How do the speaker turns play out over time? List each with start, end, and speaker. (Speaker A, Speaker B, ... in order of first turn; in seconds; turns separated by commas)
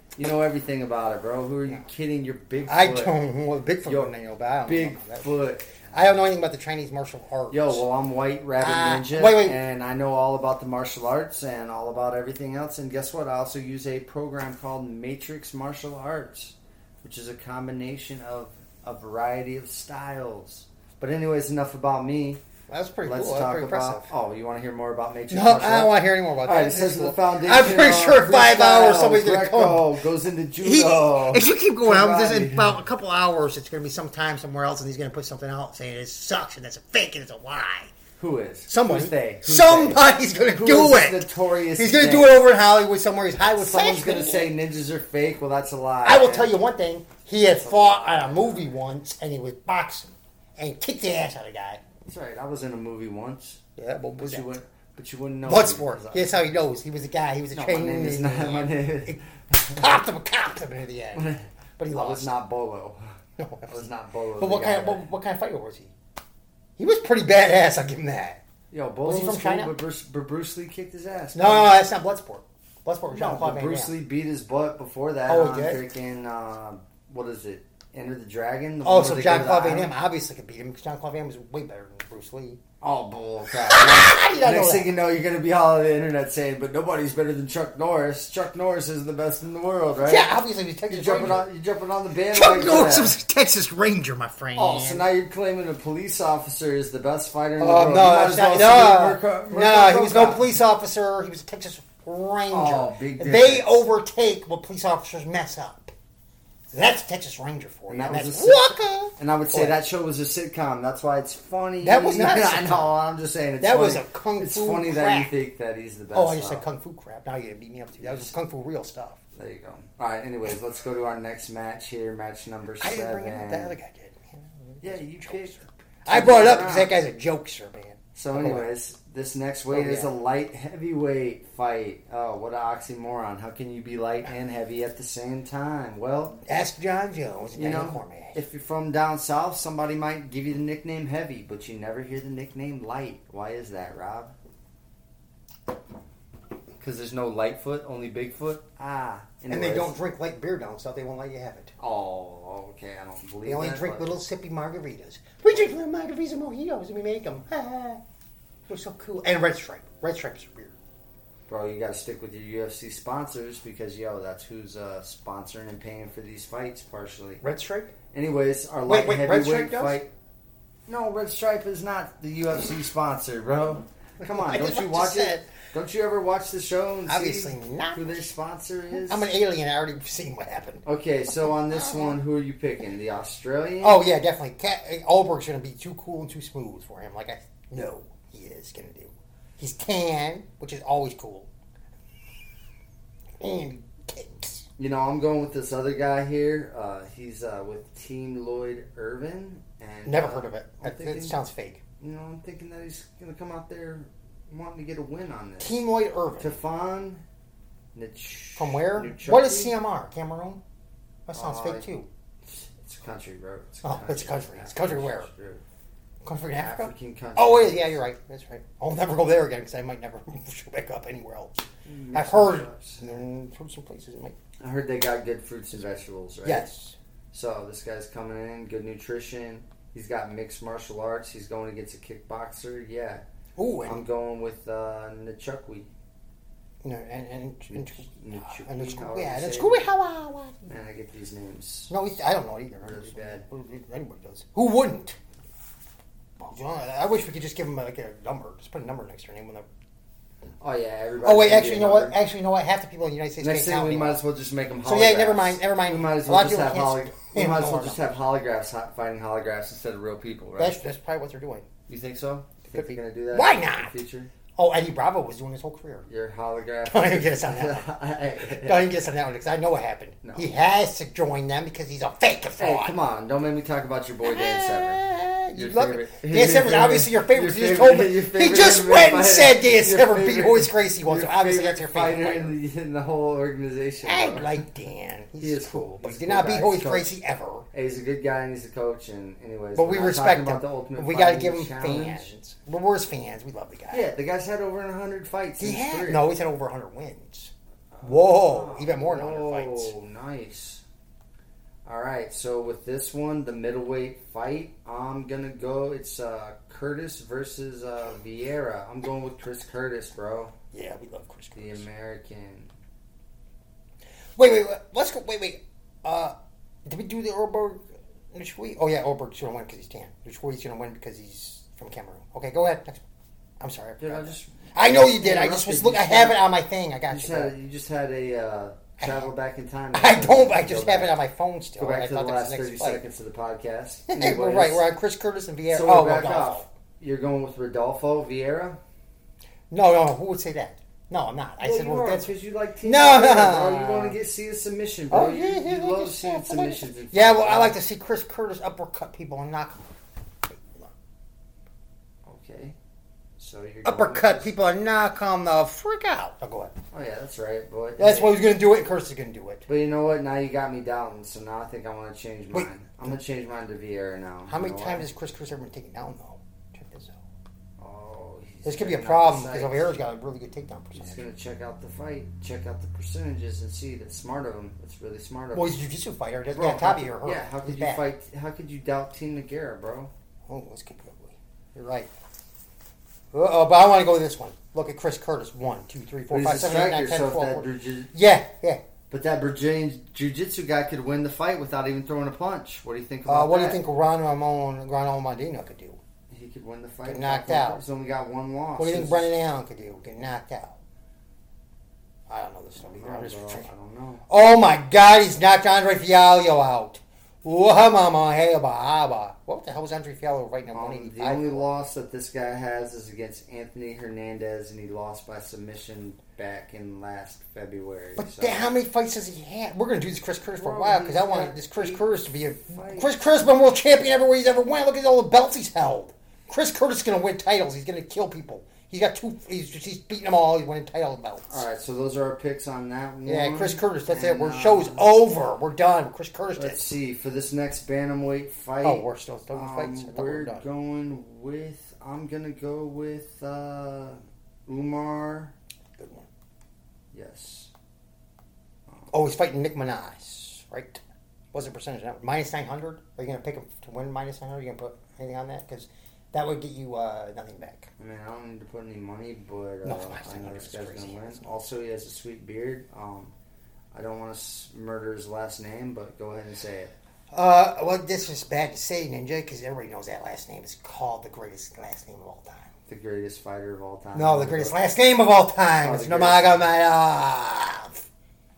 Speaker A: 0.2-3.1, Speaker B: 2.7-5.3, Speaker A: 3.9-4.1, Speaker A: 4.7-6.0, Speaker B: 5.9-7.8, Speaker A: 7.5-22.4, Speaker B: 8.6-9.6, Speaker B: 22.7-24.1, Speaker A: 23.0-32.8, Speaker B: 25.3-29.9, Speaker B: 30.6-37.9, Speaker A: 38.2-42.4, Speaker B: 38.7-44.5, Speaker A: 43.6-46.5, Speaker B: 46.0-51.8, Speaker A: 47.5-48.7, Speaker A: 52.1-53.6, Speaker B: 53.8-54.5, Speaker A: 54.2-56.5, Speaker B: 55.5-59.2, Speaker A: 57.5-59.8, Speaker B: 59.7-62.3, Speaker A: 61.1-65.1, Speaker B: 63.4-63.8, Speaker B: 64.4-65.9, Speaker B: 66.8-68.4, Speaker A: 68.7-71.8, Speaker B: 69.0-69.7, Speaker B: 71.3-73.9, Speaker A: 73.1-79.9, Speaker B: 75.3-75.8, Speaker B: 78.8-82.6, Speaker A: 82.8-90.3, Speaker B: 83.5-84.9, Speaker B: 90.0-91.5, Speaker A: 90.9-93.2, Speaker B: 92.3-95.0, Speaker A: 94.6-100.5, Speaker B: 97.6-105.9, Speaker A: 102.5-103.7, Speaker B: 106.7-109.8, Speaker A: 107.9-116.7, Speaker B: 111.8-112.9, Speaker B: 113.6-115.3, Speaker B: 116.1-119.2, Speaker A: 118.0-118.3, Speaker A: 119.3-123.7, Speaker B: 122.8-128.7, Speaker A: 124.8-126.9, Speaker A: 128.2-136.4, Speaker B: 129.7-130.1, Speaker B: 136.5-138.4, Speaker A: 137.6-144.3, Speaker A: 146.8-149.9, Speaker B: 149.5-151.7, Speaker A: 151.8-154.2, Speaker B: 153.5-158.0, Speaker B: 158.7-160.8, Speaker A: 161.5-167.4, Speaker B: 167.4-167.9, Speaker A: 168.1-170.1, Speaker B: 168.9-170.0, Speaker A: 170.9-179.3, Speaker B: 174.2-175.5, Speaker B: 177.1-178.3, Speaker B: 178.9-180.8, Speaker A: 180.8-184.0, Speaker B: 181.5-182.2, Speaker B: 183.8-191.5, Speaker B: 193.4-194.7, Speaker A: 194.8-201.4, Speaker B: 200.1-201.8, Speaker A: 202.0-205.8, Speaker B: 205.6-206.6, Speaker A: 206.4-207.2, Speaker A: 207.9-209.8, Speaker B: 208.6-210.6, Speaker B: 211.3-212.1, Speaker A: 211.3-211.9, Speaker A: 212.4-215.6, Speaker B: 213.8-215.3, Speaker B: 216.2-224.4, Speaker A: 216.6-218.0, Speaker A: 221.8-223.0, Speaker A: 224.6-226.7, Speaker B: 226.4-226.9, Speaker A: 227.3-233.2, Speaker B: 233.6-234.0, Speaker A: 233.8-235.9, Speaker B: 236.8-240.7, Speaker A: 237.7-239.9, Speaker A: 240.7-241.9, Speaker B: 241.9-245.2, Speaker A: 242.8-243.4, Speaker B: 246.4-249.7, Speaker A: 250.6-252.2, Speaker B: 251.2-254.2, Speaker A: 253.4-260.8, Speaker B: 254.8-258.1, Speaker B: 260.6-261.7, Speaker A: 261.9-264.3, Speaker B: 262.7-264.0, Speaker B: 264.6-266.1, Speaker A: 266.1-268.9, Speaker B: 266.9-267.9, Speaker B: 268.5-273.0, Speaker A: 270.2-270.5, Speaker A: 272.6-284.5, Speaker B: 274.2-282.6, Speaker B: 284.0-287.7, Speaker A: 285.4-287.1, Speaker A: 287.7-292.3, Speaker B: 289.8-294.1, Speaker A: 293.9-296.3, Speaker B: 295.6-299.9, Speaker A: 297.9-300.8, Speaker A: 301.9-310.6, Speaker B: 310.7-311.9, Speaker A: 311.6-312.7, Speaker B: 314.4-323.0, Speaker B: 323.6-327.5, Speaker A: 324.0-326.4, Speaker A: 327.1-331.1, Speaker B: 329.0-329.3, Speaker B: 329.9-333.0, Speaker A: 331.8-334.8, Speaker B: 334.1-336.7, Speaker A: 335.7-338.8, Speaker B: 339.7-342.3, Speaker A: 341.6-347.8, Speaker B: 342.8-344.2, Speaker B: 345.1-349.9, Speaker B: 350.5-350.9, Speaker A: 352.3-352.8, Speaker A: 353.4-354.5, Speaker B: 353.9-356.7, Speaker A: 356.9-358.4, Speaker B: 358.0-359.7, Speaker A: 359.7-365.1, Speaker B: 362.5-363.2, Speaker B: 364.5-367.2, Speaker A: 367.8-369.9, Speaker B: 368.6-371.2, Speaker A: 370.9-375.8, Speaker B: 375.5-378.1, Speaker A: 376.5-380.1, Speaker B: 380.5-382.1, Speaker B: 383.3-388.8, Speaker A: 386.3-388.1, Speaker A: 389.1-393.8, Speaker B: 393.3-396.0, Speaker A: 396.3-399.3, Speaker B: 397.1-397.8, Speaker B: 398.8-400.8, Speaker B: 402.3-403.7, Speaker A: 402.8-404.2, Speaker B: 404.3-411.7, Speaker A: 410.7-418.7, Speaker B: 418.2-431.6, Speaker A: 420.5-422.1, Speaker A: 422.7-423.1, Speaker A: 431.5-435.1, Speaker B: 433.3-436.9, Speaker A: 436.6-445.6, Speaker B: 438.8-440.7, Speaker B: 446.0-446.3, Speaker A: 447.1-447.7, Speaker B: 449.1-451.0, Speaker B: 451.5-457.9, Speaker A: 458.0-463.3, Speaker B: 459.8-461.5, Speaker A: 463.9-466.9, Speaker B: 467.3-472.7, Speaker A: 472.9-474.8, Speaker B: 474.1-478.1, Speaker A: 475.8-476.7